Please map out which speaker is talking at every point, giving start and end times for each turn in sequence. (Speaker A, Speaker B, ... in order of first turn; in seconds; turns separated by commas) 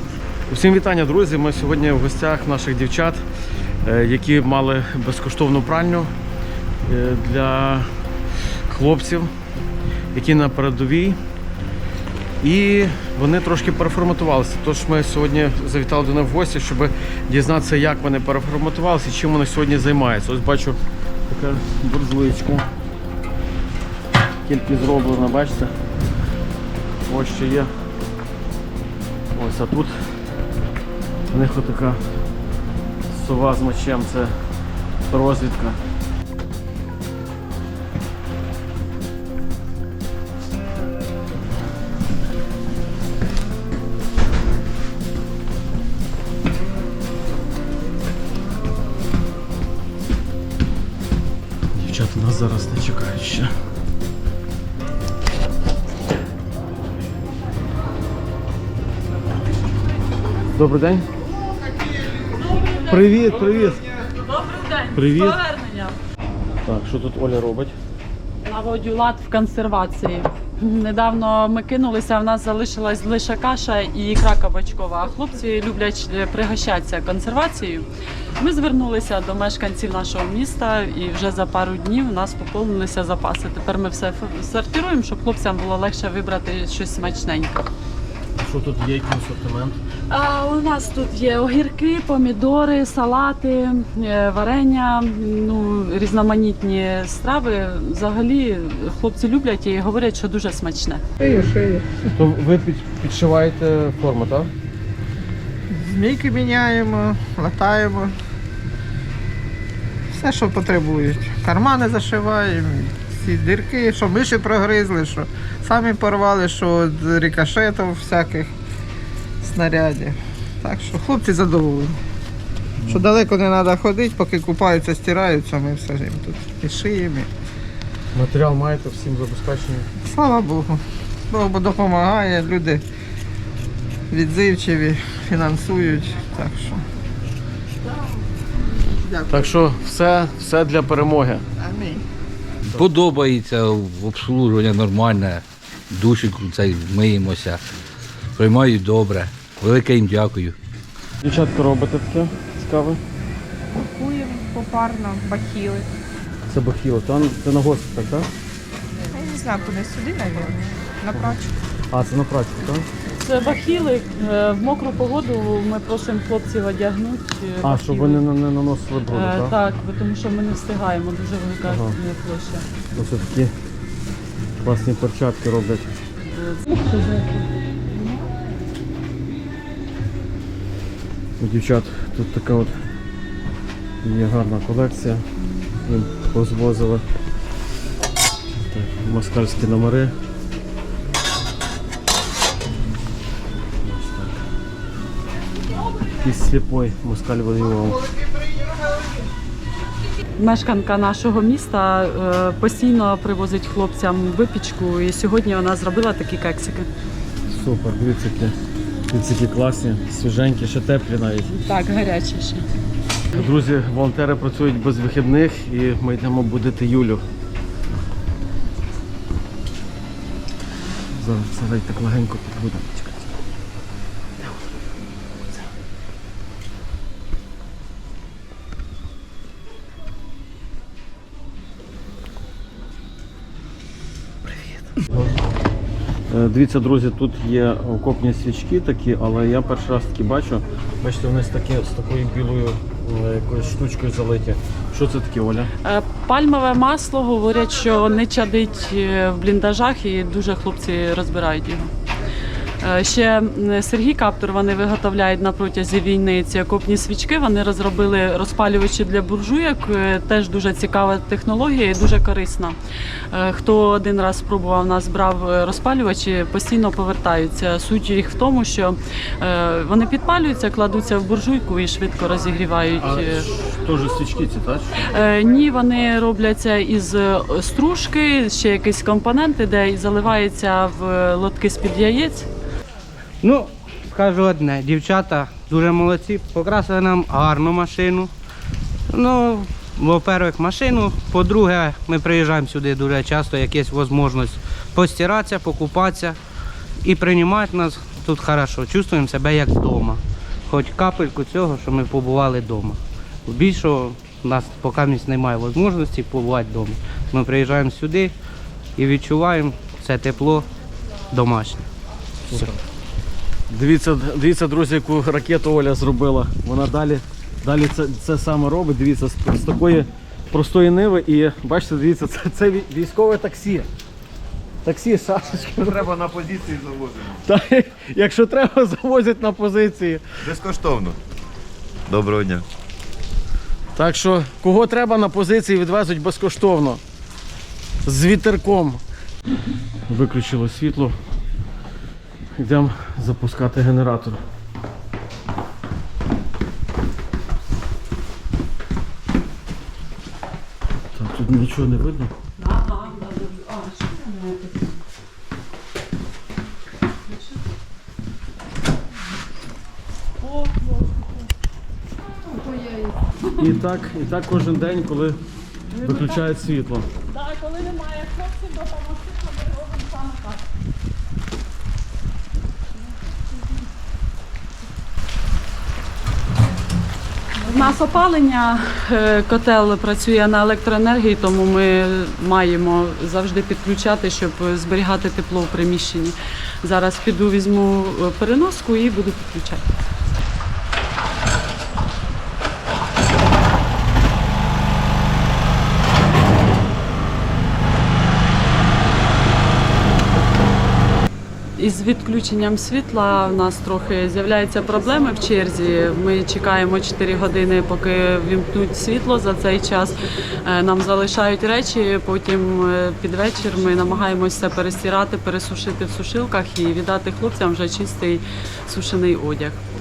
Speaker A: 0.5-3.2, Speaker A: 3.8-6.1, Speaker A: 6.8-7.9, Speaker A: 8.7-9.3, Speaker A: 10.1-11.2, Speaker A: 12.4-20.8, Speaker A: 21.3-22.7, Speaker A: 24.4-25.7, Speaker A: 27.1-27.7, Speaker A: 29.3-30.1, Speaker A: 31.3-32.0, Speaker A: 33.1-34.3, Speaker A: 35.1-35.8, Speaker A: 51.8-53.5, Speaker A: 60.5-61.1, Speaker B: 62.5-63.4, Speaker A: 62.9-63.8, Speaker B: 63.9-66.0, Speaker A: 64.9-65.4, Speaker A: 66.7-67.7, Speaker B: 68.4-87.7, Speaker A: 88.4-89.8, Speaker B: 90.1-101.0, Speaker C: 101.2-101.9, Speaker A: 102.1-104.5, Speaker C: 105.7-108.2, Speaker C: 110.1-118.5, Speaker C: 119.4-122.0, Speaker C: 122.9-127.3, Speaker A: 128.1-129.9, Speaker C: 130.0-132.8, Speaker C: 134.1-136.8, Speaker C: 139.0-139.6, Speaker A: 139.3-141.4, Speaker C: 141.6-142.0, Speaker D: 142.7-147.6, Speaker D: 148.4-150.6, Speaker A: 151.2-153.0, Speaker E: 153.8-155.9, Speaker A: 156.5-158.3, Speaker E: 159.1-161.5, Speaker A: 161.1-161.4, Speaker A: 161.9-162.9, Speaker B: 163.2-168.2, Speaker A: 167.6-169.6, Speaker B: 169.1-172.7, Speaker A: 171.7-172.0, Speaker A: 172.9-173.5, Speaker A: 174.6-175.9, Speaker B: 176.3-176.9, Speaker A: 181.4-182.8, Speaker A: 184.0-185.3, Speaker A: 185.8-187.0, Speaker A: 188.6-190.1, Speaker A: 193.8-194.4, Speaker A: 196.1-198.1, Speaker B: 200.4-206.9, Speaker A: 207.5-208.6, Speaker A: 209.1-211.5, Speaker B: 211.5-212.7, Speaker A: 213.3-217.2, Speaker A: 221.1-223.3, Speaker A: 236.3-245.7, Speaker B: 245.8-251.9, Speaker B: 252.8-262.8, Speaker B: 263.3-273.5, Speaker A: 273.0-275.1, Speaker B: 275.0-282.5, Speaker F: 283.4-288.3, Speaker F: 289.1-296.4, Speaker F: 297.0-308.3, Speaker F: 309.0-310.7, Speaker F: 311.3-311.8, Speaker A: 312.5-312.8, Speaker A: 313.7-323.9, Speaker A: 324.8-326.1, Speaker G: 325.9-327.4, Speaker A: 327.4-330.2, Speaker G: 330.4-331.2, Speaker G: 332.1-332.7, Speaker A: 333.9-337.0, Speaker A: 338.1-339.0, Speaker A: 340.1-341.1, Speaker A: 342.6-344.4, Speaker A: 351.1-352.3, Speaker B: 352.6-354.9, Speaker B: 360.4-360.9, Speaker A: 363.6-365.4, Speaker B: 365.9-366.5, Speaker A: 366.0-367.1, Speaker B: 367.3-370.6, Speaker B: 377.6-389.9, Speaker B: 401.8-419.8